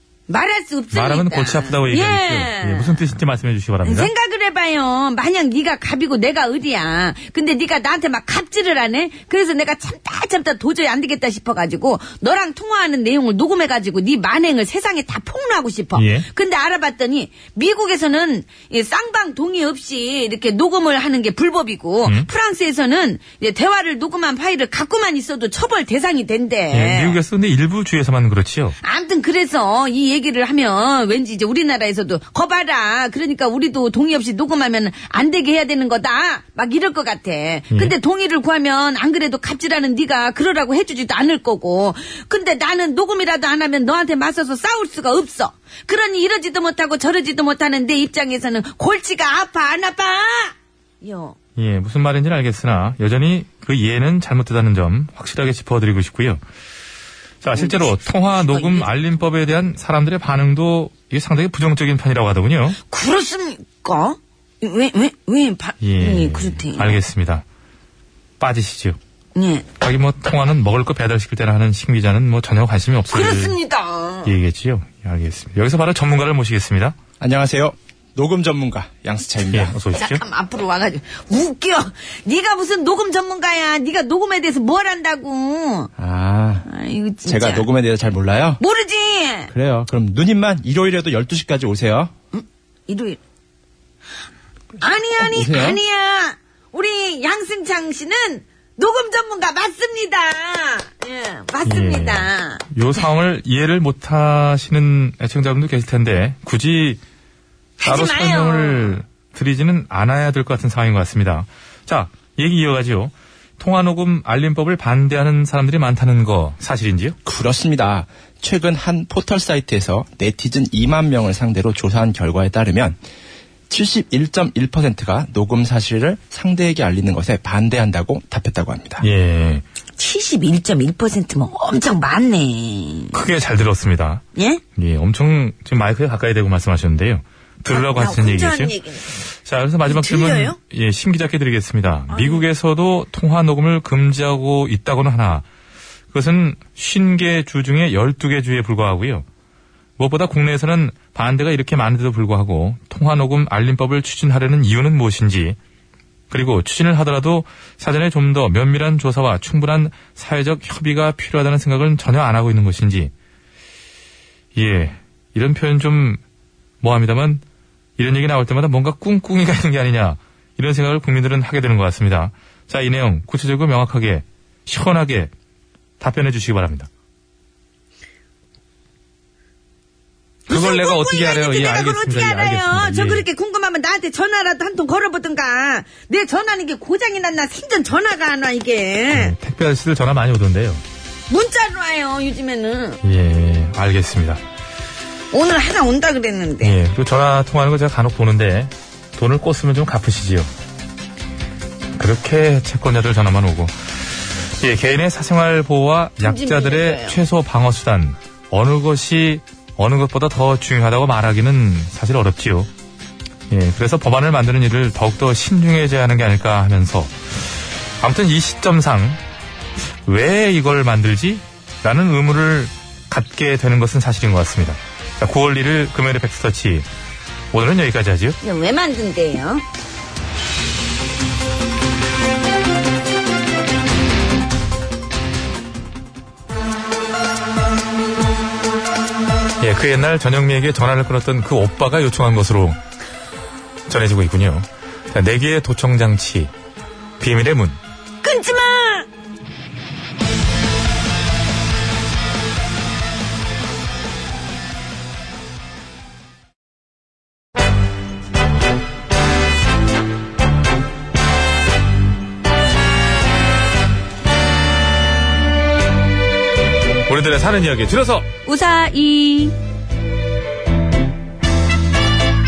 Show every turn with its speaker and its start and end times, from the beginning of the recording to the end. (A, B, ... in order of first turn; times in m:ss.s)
0:00.3-0:03.0 A
0:00.9-0:04.1 B
0:03.8-0:27.2 A
0:16.0-0:16.3 B
0:22.0-0:22.3 B
0:26.7-0:28.8 B
0:28.8-0:51.4 A
0:51.6-0:56.4 B
0:57.4-1:02.8 B
0:57.6-0:58.9 A
1:02.8-1:07.0 A
1:05.8-1:07.4 B
1:08.4-1:09.0 B
1:09.4-1:09.7 A
1:09.8-1:13.6 B
1:13.1-1:14.3 A
1:14.2-1:17.0 B
1:17.2-1:19.8 C
1:19.5-1:20.2 B
1:20.0-1:25.9 A
1:26.0-1:26.7 C
1:26.7-1:27.7 A
1:27.3-1:28.6 C
1:28.6-1:29.5 A
1:29.5-1:32.1 C
1:32.3-1:33.2 A
1:34.8-1:42.6 A
1:35.2-1:35.8 C
1:41.6-1:47.0 B
1:47.8-1:49.0 A
1:47.8-1:57.2 B
1:57.3-2:03.0 C
2:03.7-2:09.1 C
2:09.0-2:09.6 B
2:10.0-2:13.2 A
2:13.1-2:14.2 B
2:14.4-2:14.6 A
2:14.8-2:18.8 B
2:17.7-2:19.1 A
2:19.4-2:25.4 B
2:19.9-2:20.6 A
2:22.1-2:22.4 A
2:26.1-2:29.3 B
2:30.0-2:35.6 B
2:36.3-2:43.1 B
2:44.6-2:46.2 B
2:46.8-2:47.4 B
2:48.0-2:55.3 B
2:56.0-2:56.9 B
3:00.5-3:03.3 B
3:00.5-3:09.4 A
3:09.1-3:10.8 B
3:11.3-3:13.0 A
3:13.0-3:14.4 B
3:15.3-3:16.8 A
3:16.6-3:20.5 B
3:22.0-3:32.7 B
3:26.2-3:27.2 A
3:33.5-3:39.2 B
3:40.0-3:46.9 B
3:47.5-3:48.4 B
3:48.4-3:49.6 A
3:59.6-4:02.8 B
4:03.9-4:06.5 B
4:07.2-4:07.8 B
4:08.2-4:09.1 A
4:27.1-4:28.3 B
4:28.5-4:29.6 A